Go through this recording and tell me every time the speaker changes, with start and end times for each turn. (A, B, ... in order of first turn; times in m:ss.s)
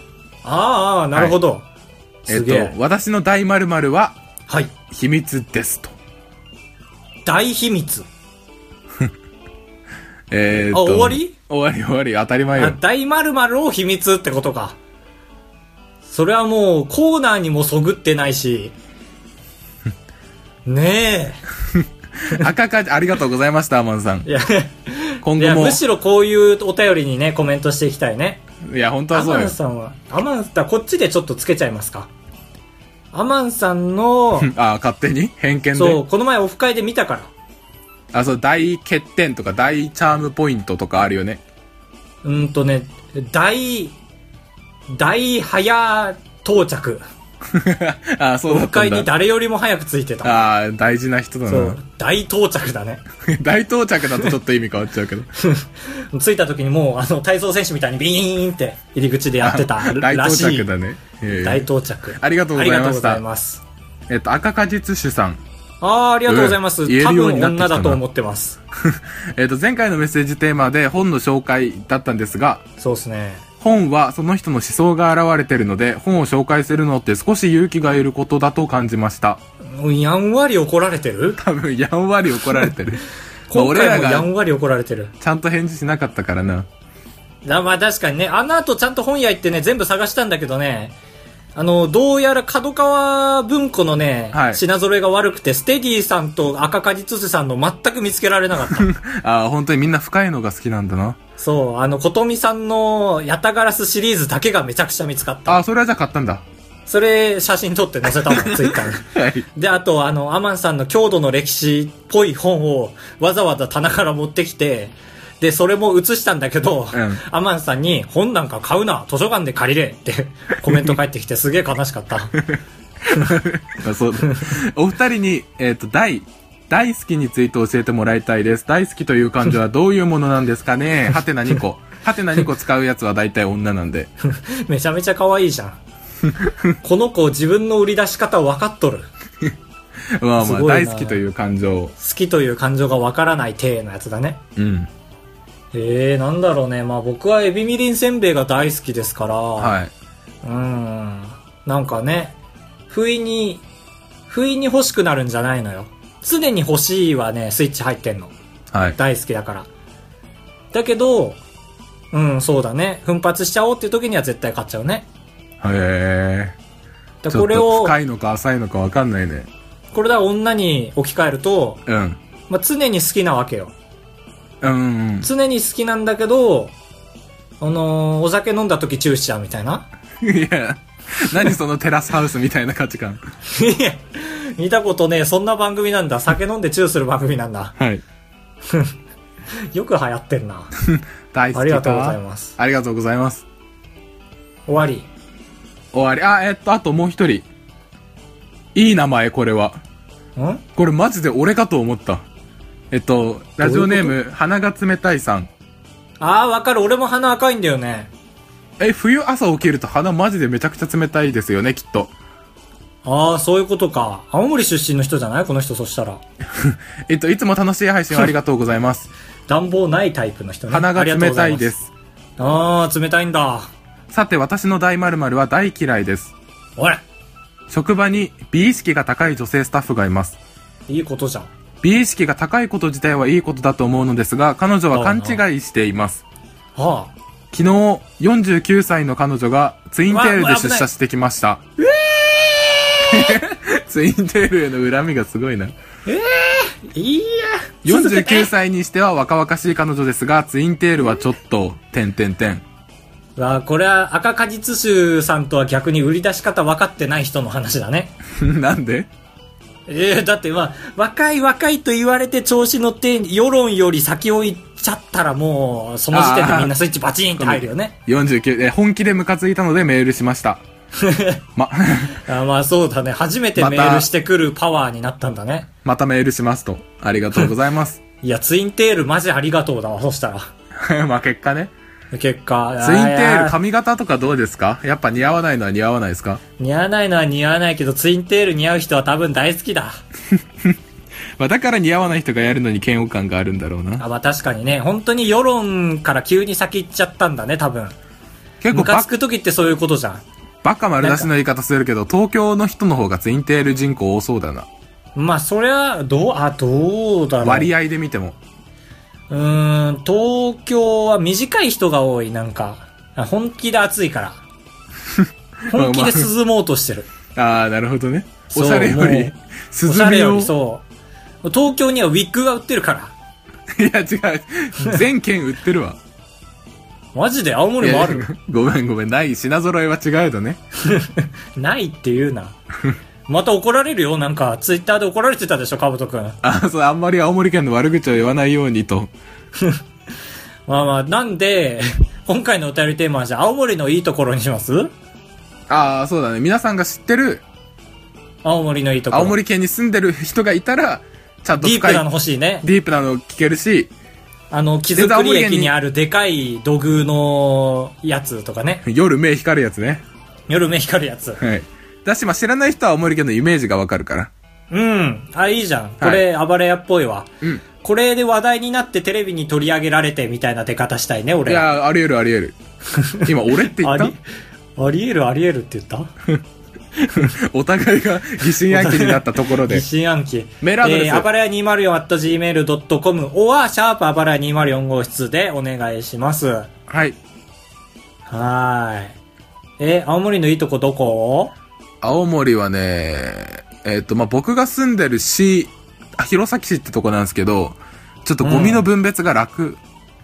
0:00.4-0:01.6 A
0:02.2-0:02.7 A
0:02.3-0:04.2 B
0:04.9-0:05.9 B
0:07.2-0:08.1 A
0:10.3-0:12.8 B
0:10.7-0:11.3 A
0:12.6-0:14.8 A
0:16.0-0:18.8 A
0:20.6-0:21.4 A
0:21.8-0:24.3 B
0:24.2-0:28.4 A
0:25.2-0:25.8 B
0:28.6-0:29.5 B
0:29.1-0:32.1 A
0:33.1-0:34.5 A
0:34.4-0:36.0 B
0:35.7-0:37.3 A
0:38.1-0:41.4 B
0:42.2-0:44.0 A
0:44.9-0:47.0 A
0:47.5-0:49.1 B
0:48.5-0:50.4 A
0:50.2-0:51.8 B
0:51.5-0:53.0 A
0:53.2-0:55.3 B
0:55.4-1:00.7 A
0:59.4-1:03.2 B
1:01.4-1:03.6 A
1:04.1-1:05.4 B
1:05.8-1:08.6 A
1:06.3-1:08.0 B
1:08.8-1:12.6 B
1:12.8-1:13.4 A
1:13.6-1:19.4 B
1:19.7-1:21.4 A
1:21.4-1:24.3 B
1:23.5-1:25.1 A
1:25.2-1:26.7 B
1:27.4-1:30.9 A
1:31.5-1:38.9 A
1:34.3-1:34.6 B
1:38.7-1:41.2 B
1:41.4-1:45.6 A
1:45.4-1:46.4 B
1:46.9-2:02.4 A
1:48.2-1:49.5 B
1:56.9-1:57.2 B
2:02.5-2:14.1 B
2:14.2-2:15.8 A
2:16.8-2:19.1 A
2:20.2-2:21.9 B
2:20.4-2:21.2 A
2:22.0-2:24.4 A
2:24.6-2:24.9 B
2:25.7-2:29.8 A
2:29.6-2:29.9 B
2:30.4-2:32.4 A
2:32.9-2:33.6 A
2:34.3-2:38.3 A
2:38.7-2:39.0 B
2:38.9-2:39.7 A
2:40.7-2:41.4 A
2:42.1-2:45.0 A
2:45.6-2:46.6 B
2:47.2-2:47.9 A
2:47.3-2:49.5 B
2:49.9-2:51.8 A
2:51.9-2:52.2 B
2:52.5-2:53.7 A
2:54.6-2:55.3 B
2:55.2-2:56.7 A
2:57.6-2:59.8 A
3:00.2-3:03.2 B
3:03.5-3:07.7 A
3:07.8-3:08.0 B
3:09.7-3:10.7 A
3:10.8-3:13.4 B
3:11.5-3:12.5 A
3:14.7-3:15.1 A
3:15.9-3:17.4 B
3:18.7-3:19.8 B
3:20.4-3:20.6 A
3:20.8-3:22.2 B
3:22.9-3:25.5 B
3:23.6-3:24.2 A
3:26.2-3:28.1 A
3:28.8-3:32.1 B
3:33.0-3:36.2 A
3:36.6-3:39.1 B
3:39.5-3:41.7 A
3:40.7-3:41.9 B
3:42.4-3:43.7 A
3:44.1-3:46.3 B
3:46.8-3:47.0 A
3:47.7-3:50.4 B
3:50.9-3:51.5 A
3:51.8-3:56.2 B
3:54.9-3:55.4 A
3:56.8-3:57.1 A
3:57.5-4:01.6 B
4:00.1-4:00.8 A
4:01.8-4:03.4 A
4:03.1-4:05.7 B
4:06.0-4:08.5 A
4:07.8-4:12.6 B
4:13.4-4:18.2 A
4:18.3-4:19.1 B
4:19.9-4:27.9 A
4:26.1-4:26.7 B
4:27.4-4:30.6 B
4:31.0-4:31.4 A
4:31.6-4:32.2 B
4:32.1-4:35.7 A
4:33.6-4:34.1 B
4:35.8-4:38.0 B
4:38.2-4:40.5 A
4:40.8-4:41.7 B
4:42.1-4:43.6 A
4:42.8-4:46.4 B
4:46.6-4:50.0 A
4:51.4-4:54.0 B
4:54.0-4:58.0 A
4:58.6-4:59.1 B
4:58.7-5:00.2 A
5:00.6-5:04.7 B
5:01.0-5:01.3 A
5:05.2-5:07.7 A
5:07.4-5:08.4 B
5:09.3-5:14.4 A
5:15.1-5:16.3 B
5:15.7-5:17.1 A
5:17.3-5:20.5 B
5:18.5-5:19.3 A
5:19.8-5:20.8 A
5:21.4-5:23.1 A
5:23.8-5:26.0 B
5:27.1-5:28.3 A
5:27.8-5:30.6 B
5:30.8-5:32.6 A
5:33.3-5:36.4 A
5:36.4-5:39.1 B
5:40.7-5:44.9 A
5:45.7-5:47.4 B
5:48.4-5:49.4 A
5:49.1-5:52.0 B
5:51.6-5:52.7 A
5:52.6-5:53.9 B
5:54.5-5:58.8 A
5:54.9-5:55.7 B
5:58.8-6:00.0 B
6:00.5-6:01.4 A
6:01.4-6:04.3 B
6:04.7-6:11.7 A
6:11.4-6:12.6 B
6:12.9-6:14.2 A
6:13.2-6:14.1 B
6:14.8-6:16.1 A
6:17.0-6:19.8 B
6:18.7-6:26.7 A
6:20.6-6:21.3 B
6:26.9-6:27.2 B
6:28.3-6:29.2 A
6:29.8-6:31.5 A
6:32.0-6:39.8 B
6:38.4-6:38.8 A